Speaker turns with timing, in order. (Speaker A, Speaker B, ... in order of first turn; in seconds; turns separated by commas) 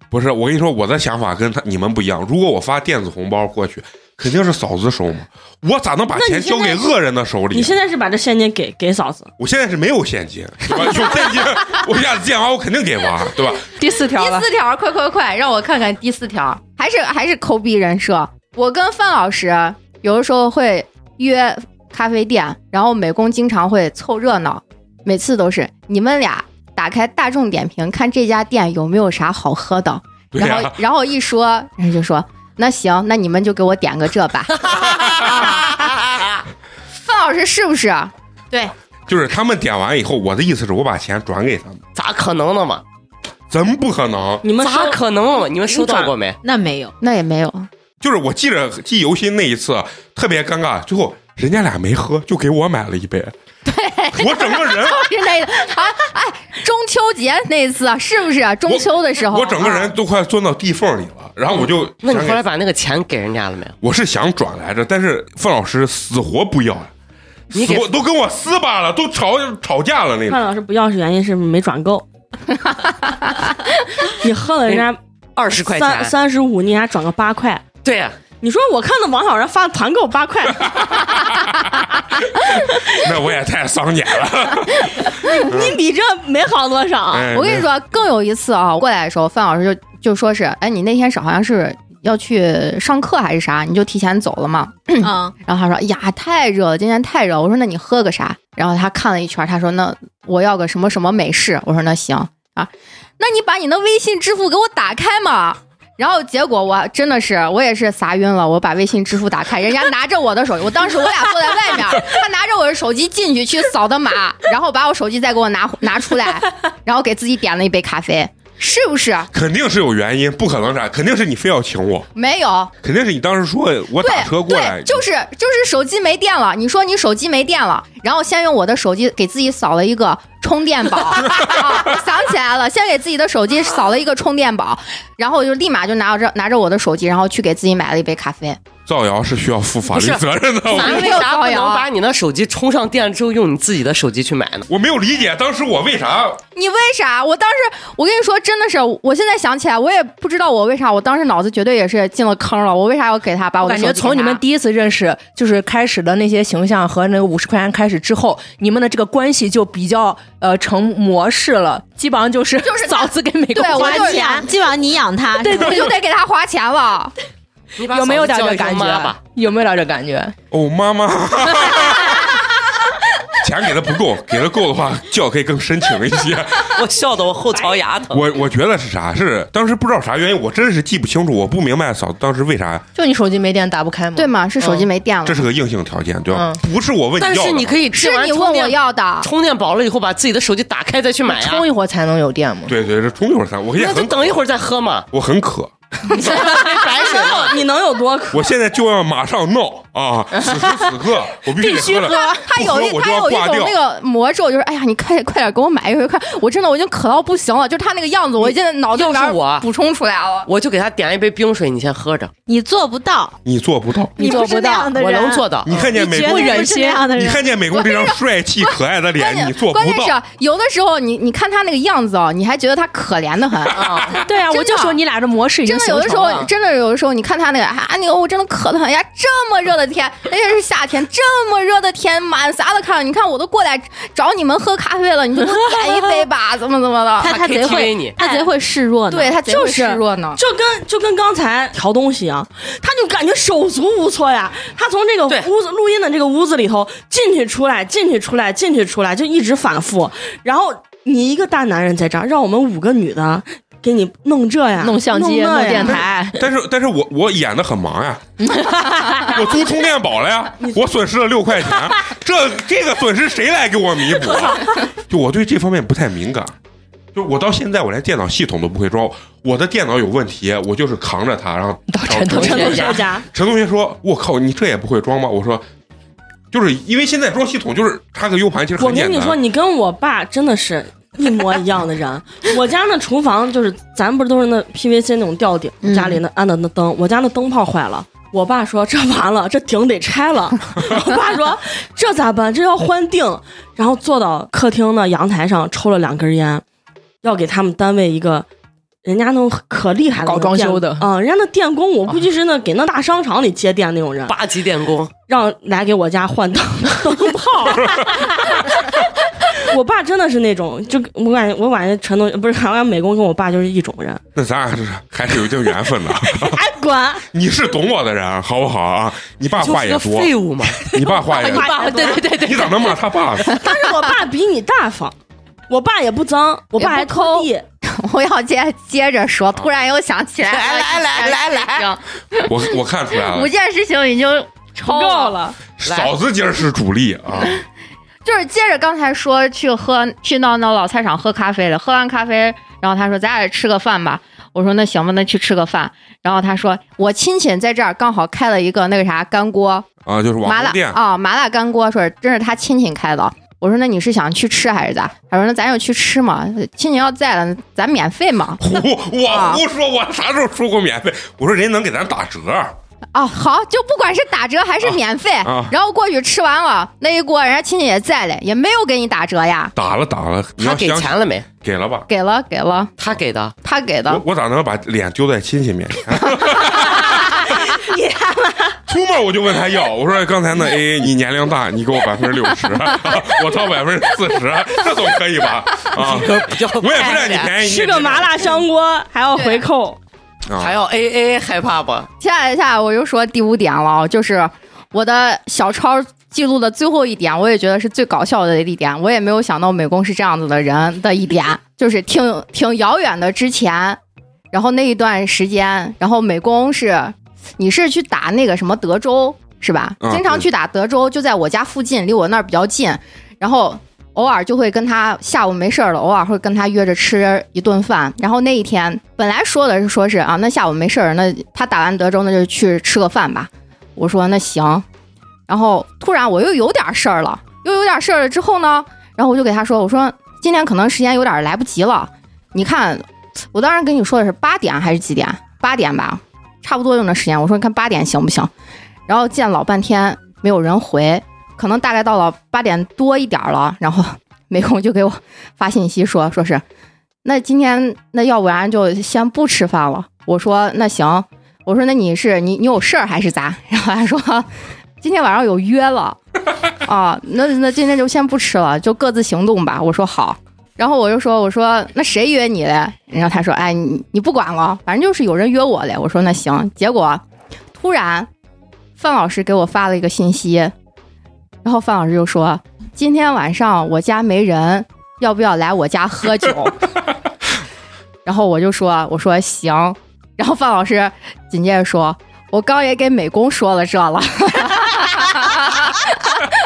Speaker A: 0.1-7.8, Speaker B: 6.1-6.9, Speaker B: 7.5-9.3, Speaker A: 9.4-13.7, Speaker C: 13.8-14.5, Speaker D: 14.0-34.8, Speaker A: 30.3-30.8, Speaker E: 34.6-36.4, Speaker A: 35.0-35.4, Speaker D: 37.0-38.1, Speaker A: 39.1-41.8, Speaker E: 41.9-42.8, Speaker A: 43.5-44.4, Speaker B: 44.4-45.0, Speaker E: 44.6-46.4, Speaker B: 45.7-46.1, Speaker F: 46.4-46.9, Speaker D: 47.0-47.7, Speaker A: 48.0-53.3, Speaker D: 53.6-59.9, Speaker A: 54.1-55.1, Speaker A: 58.7-62.4, Speaker E: 62.0-63.7, Speaker A: 63.8-66.9, Speaker A: 67.5-70.4, Speaker E: 67.5-67.9, Speaker B: 70.3-72.0, Speaker B: 74.0-75.0, Speaker E: 74.7-76.1, Speaker B: 75.6-77.6, Speaker E: 77.8-78.2, Speaker B: 78.4-81.3, Speaker A: 80.6-85.8, Speaker B: 85.2-87.3, Speaker A: 87.1-87.7, Speaker D: 87.3-119.3, Speaker F: 95.0-95.3, Speaker A: 119.3-122.1, Speaker D: 122.1-122.7, Speaker A: 122.8-125.0, Speaker D: 124.0-138.6, Speaker A: 131.3-131.9, Speaker A: 138.8-141.2, Speaker E: 139.9-144.7, Speaker D: 140.7-141.8, Speaker A: 144.7-146.4, Speaker D: 146.5-154.4, Speaker C: 153.6-164.4, Speaker D: 162.6-164.4, Speaker F: 163.6-165.9, Speaker D: 165.4-167.1, Speaker C: 165.4-165.8, Speaker E: 167.8-169.2, Speaker C: 167.9-170.3, Speaker A: 170.5-172.4, Speaker A: 173.3-176.8, Speaker E: 176.7-178.2, Speaker A: 178.1-182.8, Speaker C: 182.9-184.9, Speaker D: 184.1-185.5, Speaker A: 185.2-187.8, Speaker C: 186.3-186.6, Speaker E: 187.2-191.6, Speaker D: 187.9-189.3, Speaker C: 191.3-192.7, Speaker A: 192.7-194.4, Speaker E: 193.8-195.1, Speaker A: 195.1-195.7, Speaker E: 196.2-197.6, Speaker C: 196.3-196.9, Speaker B: 196.3-198.5, Speaker A: 198.3-203.8, Speaker D: 201.7-210.5, Speaker E: 208.4-209.7, Speaker E: 210.5-212.3, Speaker F: 212.5-213.4, Speaker A: 213.4-214.2, Speaker F: 214.2-217.4, Speaker C: 214.2-214.9, Speaker E: 214.2-215.7, Speaker A: 215.6-220.1, Speaker C: 215.7-217.1, Speaker D: 217.7-218.2, Speaker D: 219.1-225.0, Speaker C: 223.7-226.5, Speaker D: 225.6-237.3, Speaker F: 237.2-239.3, Speaker E: 237.2-238.2, Speaker D: 239.1-240.4, Speaker B: 239.4-256.1, Speaker C: 254.8-256.4, Speaker A: 255.8-266.5, Speaker C: 258.4-259.4, Speaker A: 267.1-275.6, Speaker C: 271.9-273.0, Speaker B: 272.3-273.2, Speaker A: 276.5-279.4, Speaker B: 278.8-296.6, Speaker D: 285.8-286.2, Speaker B: 297.2-298.4, Speaker B: 299.0-304.3, Speaker C: 300.2-301.1, Speaker E: 304.3-305.1, Speaker B: 305.3-314.2, Speaker A: 307.7-308.9, Speaker A: 314.4-316.6, Speaker B: 316.2-317.2, Speaker A: 317.3-323.6, Speaker E: 319.6-320.8, Speaker B: 320.9-322.4, Speaker C: 321.4-322.6, Speaker B: 323.5-325.1, Speaker B: 325.7-327.6, Speaker D: 326.8-332.6, Speaker E: 330.4-331.9, Speaker A: 332.4-333.5, Speaker D: 333.1-335.4, Speaker B: 334.9-335.6, Speaker A: 335.8-337.6, Speaker E: 335.8-336.1, Speaker D: 338.2-349.9, Speaker A: 350.0-351.0, Speaker D: 350.4-358.7, Speaker A: 358.6-362.7, Speaker D: 359.3-359.6, Speaker D: 363.1-369.7, Speaker A: 364.8-365.7, Speaker A: 369.7-372.1, Speaker E: 370.6-371.4, Speaker D: 372.1-372.9, Speaker E: 373.0-373.5, Speaker D: 373.6-374.2, Speaker A: 374.1-377.5, Speaker B: 376.7-378.8, Speaker A: 378.9-388.6, Speaker E: 385.9-387.5, Speaker B: 387.1-390.0, Speaker D: 389.3-389.6, Speaker A: 390.5-390.8, Speaker E: 390.6-392.1, Speaker D: 392.2-404.0, Speaker D: 404.5-424.8, Speaker A: 410.0-410.4, Speaker D: 425.5-438.5, Speaker D: 439.1-446.6, Speaker D: 447.2-454.5, Speaker D: 455.0-456.2, Speaker D: 456.8-467.2, Speaker D: 467.7-468.3, Speaker D: 469.0-470.7, Speaker D: 471.6-476.8, Speaker D: 478.2-486.4